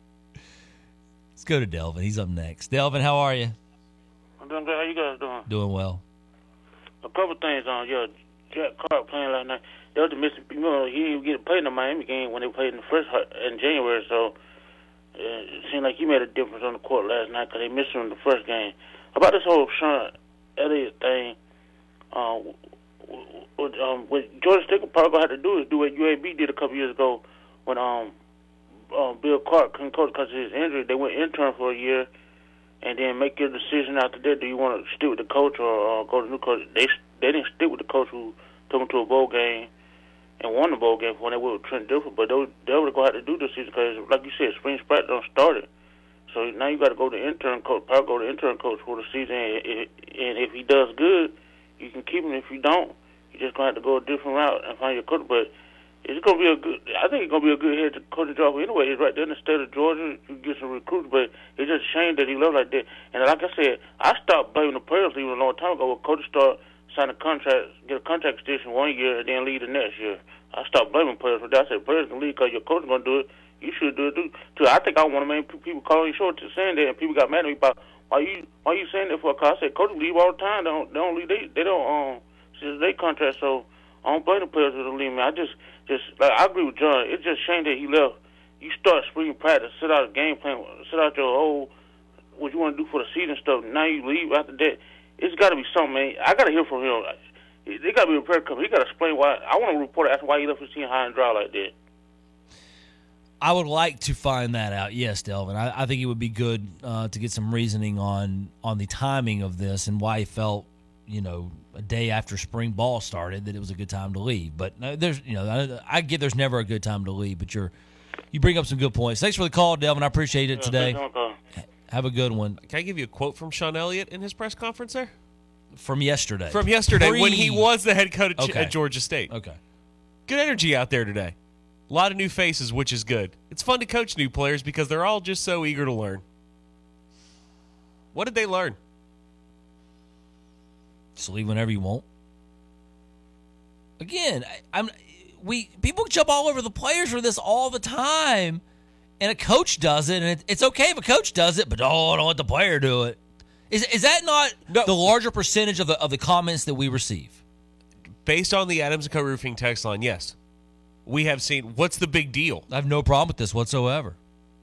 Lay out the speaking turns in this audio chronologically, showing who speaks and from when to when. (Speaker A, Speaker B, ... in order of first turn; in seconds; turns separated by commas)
Speaker A: 1.4-3.5, Speaker B: 4.4-5.5, Speaker A: 5.5-6.0, Speaker B: 7.0-14.3, Speaker B: 15.2-21.4, Speaker B: 22.1-22.5, Speaker B: 23.1-28.1, Speaker B: 28.9-32.1, Speaker B: 32.8-39.7, Speaker B: 40.4-45.7, Speaker B: 46.3-55.5, Speaker B: 56.0-91.7, Speaker B: 92.4-101.7, Speaker A: 103.4-117.7, Speaker A: 118.3-121.0, Speaker B: 120.5-121.4, Speaker A: 121.6-122.6, Speaker C: 122.6-125.1, Speaker A: 125.8-127.7, Speaker C: 126.5-129.3, Speaker A: 128.4-129.6, Speaker C: 130.3-131.3, Speaker C: 131.9-136.2, Speaker C: 138.1-138.8, Speaker A: 141.2-142.1, Speaker A: 144.0-148.6, Speaker A: 149.2-153.2, Speaker A: 153.7-157.4, Speaker C: 154.7-154.9, Speaker C: 158.2-160.4, Speaker C: 161.1-162.7, Speaker A: 162.7-164.2